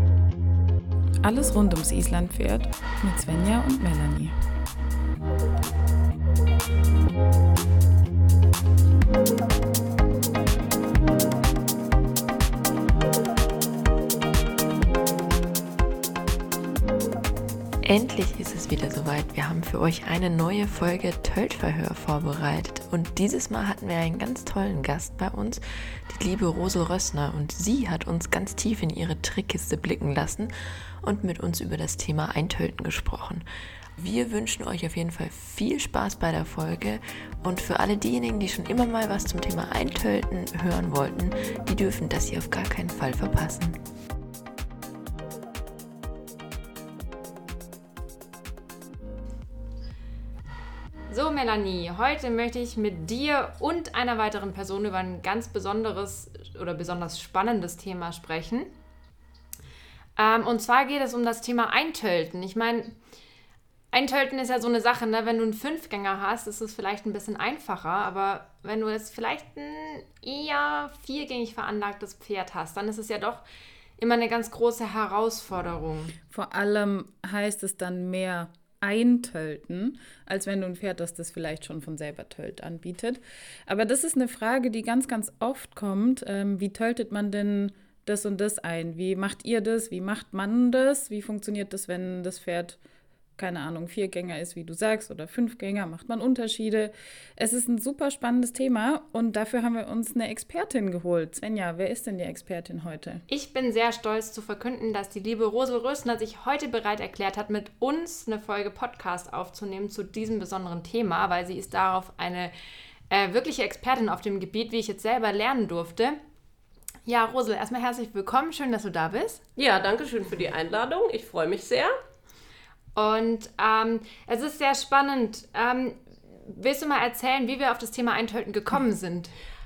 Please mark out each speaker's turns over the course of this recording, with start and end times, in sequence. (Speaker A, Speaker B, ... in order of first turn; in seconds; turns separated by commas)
Speaker A: 1.2-4.3, Speaker B: 17.8-30.5, Speaker B: 31.0-33.4, Speaker B: 34.0-43.8, Speaker C: 51.1-58.7, Speaker C: 60.1-63.0, Speaker C: 63.9-73.4, Speaker C: 74.0-76.2, Speaker A: 76.3-92.8, Speaker A: 93.4-103.2, Speaker C: 103.3-112.5, Speaker C: 113.1-116.2, Speaker C: 117.0-119.4, Speaker D: 119.6-121.9, Speaker C: 123.0-129.3